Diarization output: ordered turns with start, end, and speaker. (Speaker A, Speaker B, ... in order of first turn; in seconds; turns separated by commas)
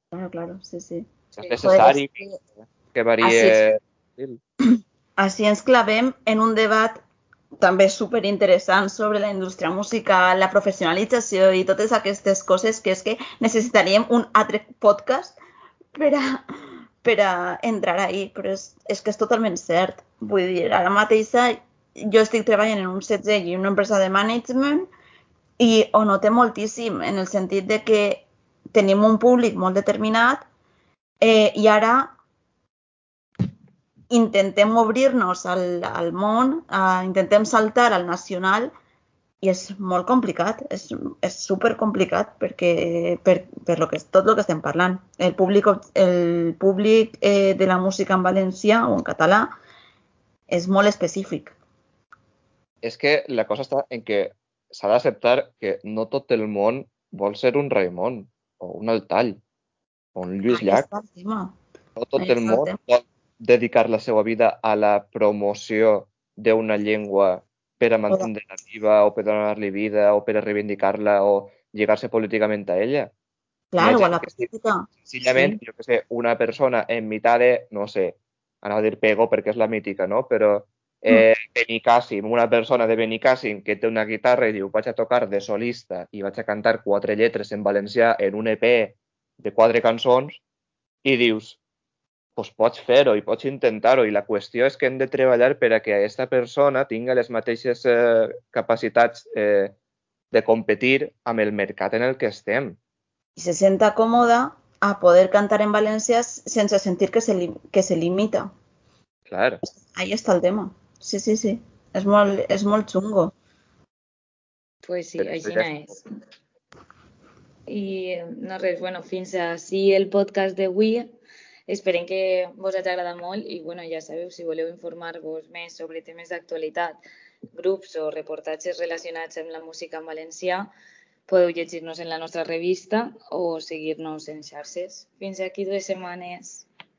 Speaker A: 0.1-1.1, Speaker B: 1.4-4.4, Speaker A: 1.6-2.4, Speaker A: 3.2-3.6, Speaker A: 5.2-7.0, Speaker A: 7.6-15.4, Speaker A: 15.9-16.4, Speaker A: 17.0-24.9, Speaker A: 25.6-30.5, Speaker A: 31.2-32.1, Speaker A: 34.1-38.7, Speaker A: 39.4-49.5, Speaker A: 50.5-51.5, Speaker B: 52.8-59.4, Speaker B: 60.2-60.9, Speaker A: 60.5-61.6, Speaker B: 62.0-73.1, Speaker A: 62.2-62.8, Speaker A: 73.7-75.6, Speaker B: 73.8-74.5, Speaker B: 75.0-90.4, Speaker B: 91.0-91.6, Speaker B: 92.4-99.8, Speaker B: 100.3-102.8, Speaker A: 103.4-108.5, Speaker B: 109.3-109.6, Speaker A: 109.6-113.3, Speaker C: 114.8-116.0, Speaker B: 115.2-115.7, Speaker C: 117.7-121.1, Speaker C: 121.7-127.0, Speaker C: 127.5-130.7, Speaker C: 131.3-136.7